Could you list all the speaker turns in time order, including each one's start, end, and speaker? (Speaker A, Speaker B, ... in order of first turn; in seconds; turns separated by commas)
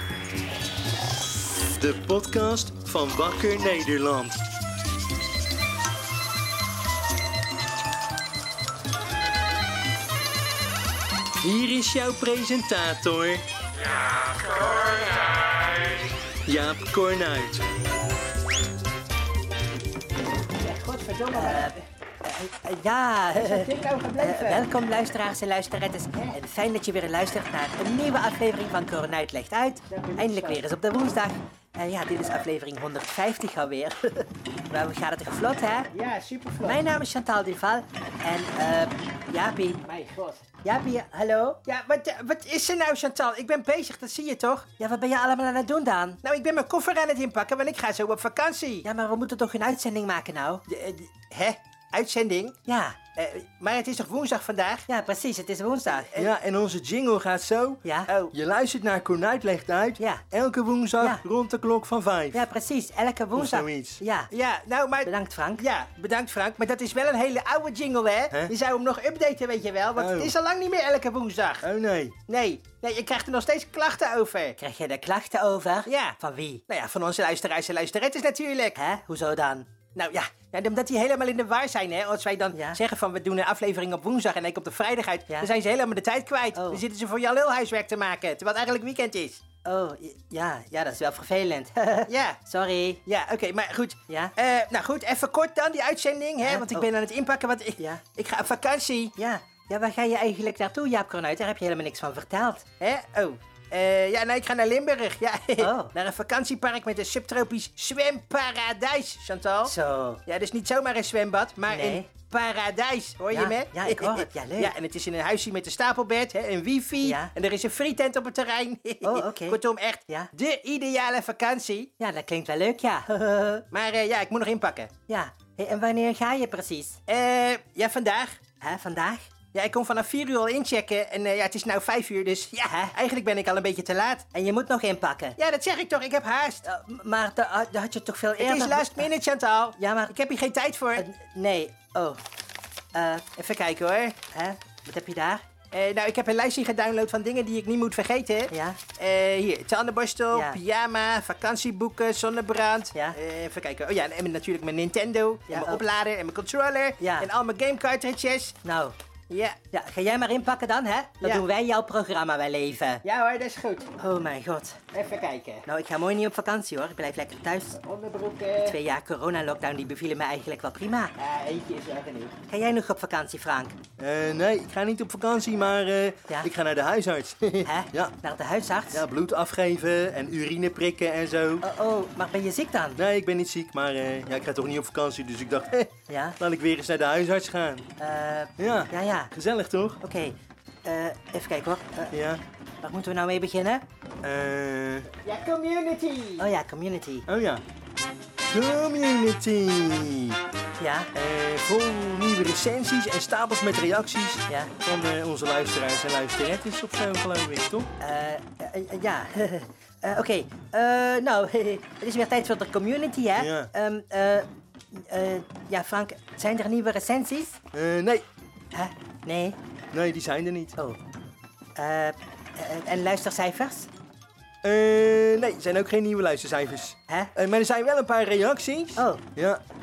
Speaker A: 1.7-4.4, Speaker A: 11.4-13.4, Speaker A: 16.5-17.6, Speaker B: 20.6-21.8, Speaker C: 21.3-35.9, Speaker B: 23.3-24.6, Speaker B: 29.9-30.6, Speaker B: 35.9-36.8, Speaker C: 36.6-39.8, Speaker B: 39.8-40.4, Speaker C: 40.6-41.6, Speaker B: 41.7-44.7, Speaker C: 44.8-46.2, Speaker B: 46.2-48.9, Speaker C: 48.8-50.6, Speaker B: 50.7-52.6, Speaker C: 52.6-53.0, Speaker B: 53.1-54.9, Speaker C: 54.9-56.2, Speaker A: 56.1-62.4, Speaker C: 57.8-58.1, Speaker B: 58.1-58.3, Speaker C: 62.3-64.3, Speaker A: 63.3-64.0, Speaker B: 64.3-71.6, Speaker C: 65.0-65.6, Speaker A: 70.0-70.3, Speaker A: 71.6-72.2, Speaker B: 72.3-74.6, Speaker C: 74.6-76.6, Speaker B: 75.9-76.2, Speaker B: 76.7-78.8, Speaker C: 78.8-79.7, Speaker B: 79.9-89.4, Speaker C: 82.5-82.8, Speaker C: 86.5-86.8, Speaker C: 89.6-93.0, Speaker B: 92.1-92.4, Speaker B: 93.0-99.1, Speaker C: 94.1-94.3, Speaker C: 96.4-96.9, Speaker C: 99.2-102.6, Speaker B: 102.8-109.7, Speaker C: 105.6-105.9, Speaker C: 109.6-110.2, Speaker B: 110.3-121.9, Speaker C: 111.7-112.1, Speaker C: 113.3-114.7, Speaker C: 117.0-117.3, Speaker C: 119.0-120.3, Speaker C: 122.0-123.6, Speaker B: 123.7-124.9, Speaker C: 125.1-127.0, Speaker B: 127.1-128.4, Speaker C: 128.6-129.2, Speaker B: 129.5-134.2, Speaker C: 132.6-132.9, Speaker C: 134.3-135.4, Speaker B: 135.4-136.7, Speaker C: 136.6-139.1, Speaker B: 138.4-141.0, Speaker C: 139.8-140.1, Speaker C: 140.9-142.2, Speaker C: 142.9-143.3, Speaker B: 143.4-144.2, Speaker C: 144.3-145.4, Speaker B: 145.7-158.6, Speaker C: 148.5-148.8, Speaker C: 150.3-150.6, Speaker C: 155.5-155.8, Speaker C: 157.0-157.3, Speaker C: 158.6-158.9, Speaker B: 159.3-159.6, Speaker C: 159.7-163.0, Speaker B: 163.0-163.9, Speaker C: 164.0-164.8, Speaker B: 164.9-165.6, Speaker C: 165.7-167.8, Speaker B: 167.7-168.8, Speaker C: 168.6-171.1, Speaker B: 171.2-172.3, Speaker C: 172.5-173.8, Speaker A: 174.0-178.1, Speaker C: 177.6-179.0, Speaker A: 178.9-181.7, Speaker C: 181.6-183.0, Speaker A: 182.9-187.8, Speaker C: 186.1-186.4, Speaker C: 188.0-189.3, Speaker A: 188.6-190.0, Speaker C: 190.0-192.2, Speaker A: 192.1-192.4, Speaker C: 192.8-193.8, Speaker A: 194.2-195.1, Speaker B: 195.2-196.5, Speaker C: 196.4-197.3, Speaker A: 197.3-197.6, Speaker A: 198.5-200.4, Speaker C: 200.8-201.1, Speaker A: 201.1-207.9, Speaker C: 204.5-204.7, Speaker C: 208.0-217.6, Speaker A: 213.4-213.7, Speaker A: 217.7-218.2, Speaker C: 218.7-219.6, Speaker A: 219.9-220.8, Speaker C: 221.8-223.9, Speaker A: 224.6-229.6, Speaker C: 229.0-229.2